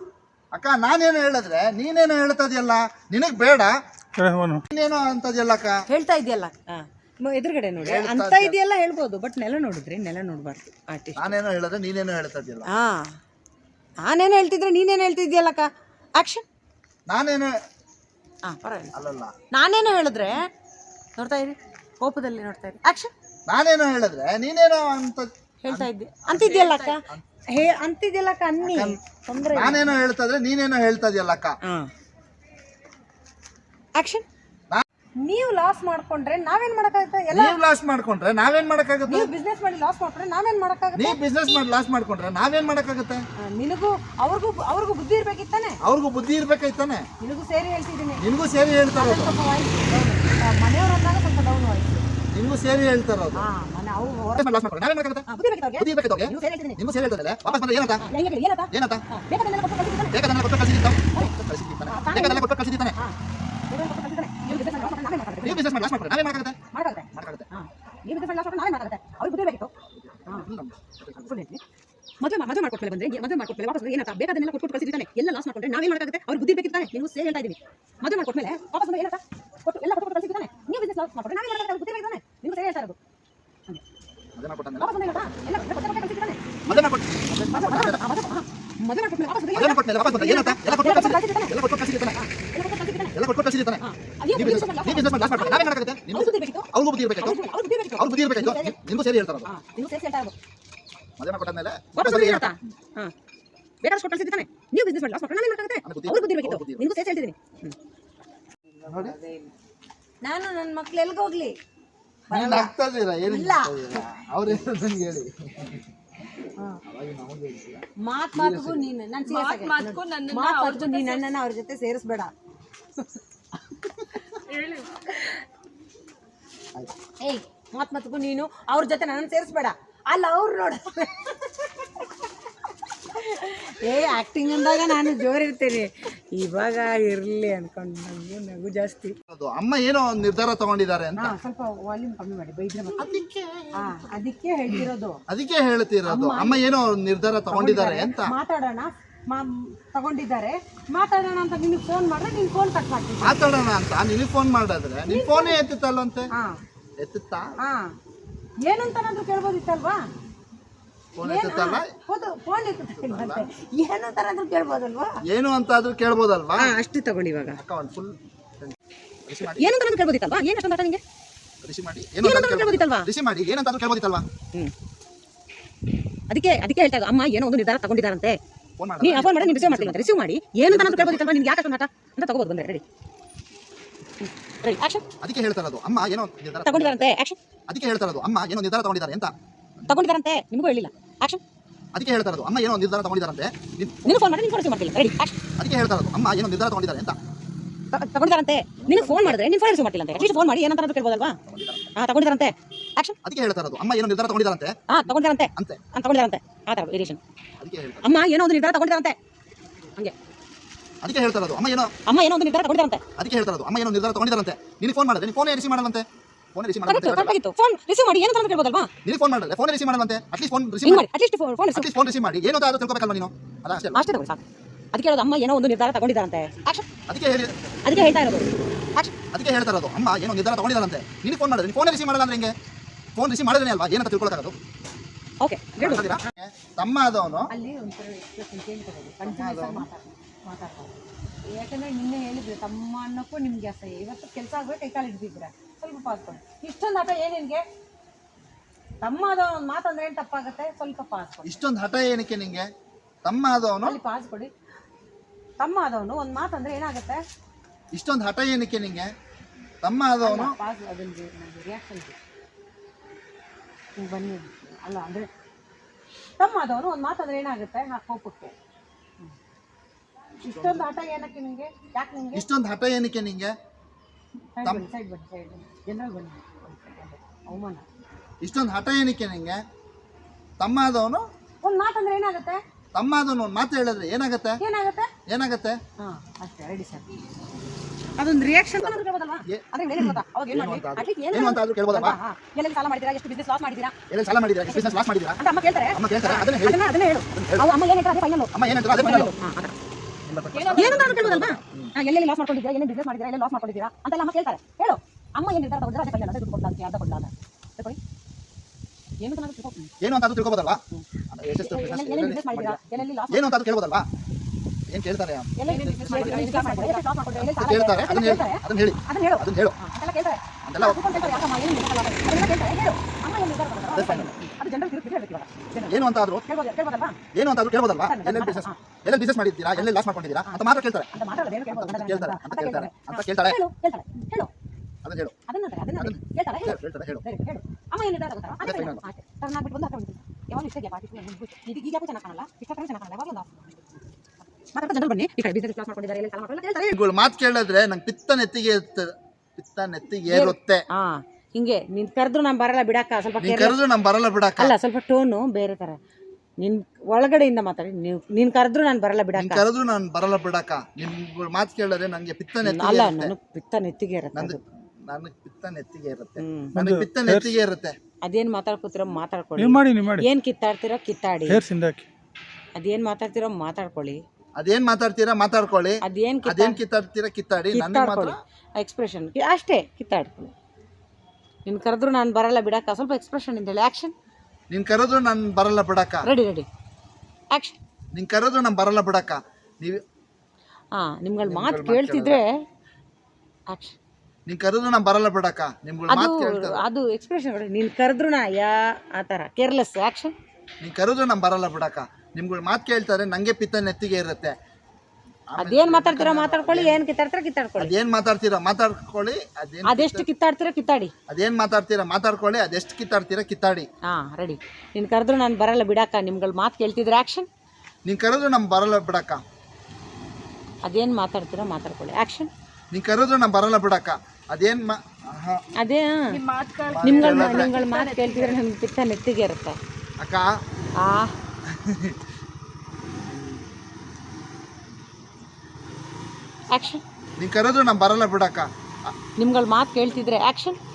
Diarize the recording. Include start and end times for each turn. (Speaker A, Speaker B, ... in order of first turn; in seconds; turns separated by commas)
Speaker A: 0.5-3.8, Speaker B: 4.2-4.6, Speaker A: 4.7-5.8, Speaker C: 5.9-11.3, Speaker A: 7.8-8.6, Speaker A: 11.2-12.7, Speaker C: 12.7-13.2, Speaker C: 14.0-16.4, Speaker A: 17.1-17.5, Speaker C: 18.4-18.9, Speaker A: 18.9-19.3, Speaker C: 19.5-20.4, Speaker C: 21.2-23.1, Speaker A: 23.5-27.2, Speaker C: 25.6-29.9, Speaker D: 26.3-27.0, Speaker A: 28.6-29.0, Speaker A: 29.5-31.6, Speaker C: 34.0-34.2, Speaker C: 35.2-37.6, Speaker A: 37.3-39.3, Speaker C: 39.1-41.2, Speaker A: 40.9-43.2, Speaker C: 43.4-45.8, Speaker A: 45.8-47.1, Speaker C: 47.2-48.2, Speaker A: 48.2-49.3, Speaker C: 48.9-52.1, Speaker A: 52.3-53.5, Speaker C: 53.4-54.5, Speaker A: 54.4-55.2, Speaker C: 55.3-56.8, Speaker A: 55.8-58.1, Speaker C: 58.0-60.2, Speaker A: 58.7-59.0, Speaker A: 60.1-63.0, Speaker C: 61.9-63.2, Speaker C: 63.7-65.7, Speaker D: 64.5-64.8, Speaker A: 65.4-66.6, Speaker C: 66.7-69.7, Speaker A: 67.1-67.5, Speaker A: 69.9-71.5, Speaker C: 71.2-71.6, Speaker C: 72.2-83.0, Speaker A: 84.3-85.1, Speaker C: 84.8-86.9, Speaker A: 86.7-88.0, Speaker C: 87.5-93.2, Speaker A: 89.5-92.2, Speaker A: 93.1-97.4, Speaker C: 93.8-98.8, Speaker A: 98.0-99.5, Speaker C: 99.4-100.3, Speaker A: 101.2-102.6, Speaker C: 101.9-103.1, Speaker C: 103.8-107.8, Speaker A: 105.8-106.9, Speaker C: 108.7-109.5, Speaker A: 108.8-109.2, Speaker C: 110.2-111.5, Speaker C: 112.3-114.0, Speaker A: 112.3-115.9, Speaker A: 116.9-118.9, Speaker C: 118.0-122.3, Speaker D: 119.3-121.2, Speaker D: 124.5-124.9, Speaker C: 127.2-132.2, Speaker C: 133.1-139.1, Speaker A: 139.3-141.3, Speaker C: 141.2-143.1, Speaker A: 143.0-144.0, Speaker C: 143.8-145.2, Speaker A: 144.7-148.3, Speaker C: 146.1-146.6, Speaker C: 147.5-153.4, Speaker A: 153.2-156.3, Speaker C: 155.1-155.6, Speaker C: 156.3-156.6, Speaker A: 157.0-157.5, Speaker C: 157.6-157.9, Speaker C: 158.7-160.0, Speaker A: 161.1-161.9, Speaker C: 161.2-165.2, Speaker A: 162.9-163.5, Speaker A: 165.3-166.7, Speaker C: 166.6-167.6, Speaker A: 167.6-169.7, Speaker C: 169.4-171.0, Speaker A: 171.6-174.3, Speaker C: 172.2-173.1, Speaker C: 176.3-178.4, Speaker A: 178.8-180.0, Speaker C: 179.0-182.8, Speaker A: 180.7-181.3, Speaker C: 184.2-185.1, Speaker A: 185.2-187.1, Speaker C: 186.6-187.4, Speaker A: 187.7-189.3, Speaker C: 189.9-191.4, Speaker A: 191.9-194.2, Speaker C: 194.0-195.4, Speaker A: 195.6-197.2, Speaker C: 197.9-201.4, Speaker A: 198.8-199.4, Speaker A: 200.1-200.6, Speaker A: 201.4-201.9, Speaker C: 201.9-203.2, Speaker A: 203.2-205.8, Speaker C: 204.9-207.2, Speaker A: 207.6-208.1, Speaker C: 208.0-209.2, Speaker A: 211.0-211.9, Speaker C: 212.1-213.0, Speaker A: 213.2-217.4, Speaker C: 216.8-218.9, Speaker A: 219.0-221.1, Speaker C: 220.8-221.9, Speaker A: 221.7-224.0, Speaker C: 223.9-224.4, Speaker C: 224.9-226.8, Speaker A: 227.1-227.6, Speaker C: 227.8-229.1, Speaker A: 229.3-232.5, Speaker A: 233.2-234.6, Speaker C: 235.4-236.2, Speaker A: 235.8-237.5, Speaker C: 237.5-240.9, Speaker A: 239.2-239.8, Speaker C: 241.5-247.6, Speaker C: 249.0-251.6, Speaker A: 251.4-252.7, Speaker A: 253.2-254.0, Speaker C: 253.8-254.5, Speaker C: 255.6-257.2, Speaker A: 257.9-259.1, Speaker A: 259.8-260.6, Speaker C: 260.2-262.2, Speaker C: 264.0-265.3, Speaker C: 266.4-268.5, Speaker C: 270.4-272.4, Speaker A: 270.4-270.9, Speaker A: 272.3-273.5, Speaker C: 274.6-277.8, Speaker A: 278.4-279.6, Speaker A: 280.6-281.2, Speaker C: 281.6-282.6, Speaker A: 282.9-284.6, Speaker C: 284.6-285.1, Speaker A: 285.3-285.8, Speaker C: 286.0-287.1, Speaker C: 288.2-294.0, Speaker A: 288.7-292.2, Speaker A: 294.1-295.4, Speaker C: 294.7-299.7, Speaker A: 295.9-297.7, Speaker A: 298.5-299.3, Speaker A: 300.3-301.9, Speaker D: 300.5-301.2, Speaker C: 300.8-308.0, Speaker C: 309.2-309.9, Speaker A: 310.0-314.1, Speaker C: 310.9-313.5, Speaker A: 314.9-316.5, Speaker C: 315.6-327.2, Speaker D: 315.6-317.1, Speaker A: 317.4-319.8, Speaker A: 320.6-321.5, Speaker A: 323.9-324.3, Speaker A: 325.8-326.4, Speaker A: 327.3-331.1, Speaker C: 328.0-328.8, Speaker C: 329.7-334.5, Speaker A: 331.6-333.6, Speaker A: 335.0-335.3, Speaker C: 335.5-344.0, Speaker A: 336.0-337.2, Speaker A: 338.6-339.0, Speaker C: 344.7-346.9, Speaker A: 346.9-350.8, Speaker C: 350.3-353.8, Speaker A: 353.4-354.8, Speaker C: 354.6-356.0, Speaker C: 356.6-359.6, Speaker A: 359.3-363.3, Speaker C: 362.6-364.6, Speaker A: 364.3-368.0, Speaker C: 366.4-366.8, Speaker B: 366.8-367.5, Speaker C: 368.2-371.7, Speaker B: 369.6-370.3, Speaker B: 371.5-372.1, Speaker C: 372.8-374.2, Speaker A: 374.6-378.4, Speaker C: 376.0-376.8, Speaker C: 377.7-380.5, Speaker C: 381.6-384.1, Speaker A: 384.7-386.3, Speaker C: 386.2-386.7, Speaker A: 388.1-390.0, Speaker C: 390.9-392.6, Speaker A: 391.4-392.4, Speaker A: 394.5-396.9, Speaker C: 396.1-400.3, Speaker A: 400.8-404.5, Speaker A: 405.5-407.0, Speaker C: 405.6-407.9, Speaker A: 407.8-410.2, Speaker C: 409.9-411.1, Speaker A: 411.3-413.9, Speaker C: 414.1-417.5, Speaker A: 418.0-419.4, Speaker C: 420.8-422.5, Speaker A: 422.9-425.6, Speaker C: 425.8-426.4, Speaker D: 426.3-428.6, Speaker A: 426.9-427.7, Speaker C: 427.0-429.8, Speaker A: 430.2-430.6, Speaker C: 431.0-431.3, Speaker A: 431.7-432.2, Speaker C: 436.7-437.0, Speaker A: 437.4-439.1, Speaker C: 439.4-440.8, Speaker A: 440.0-440.3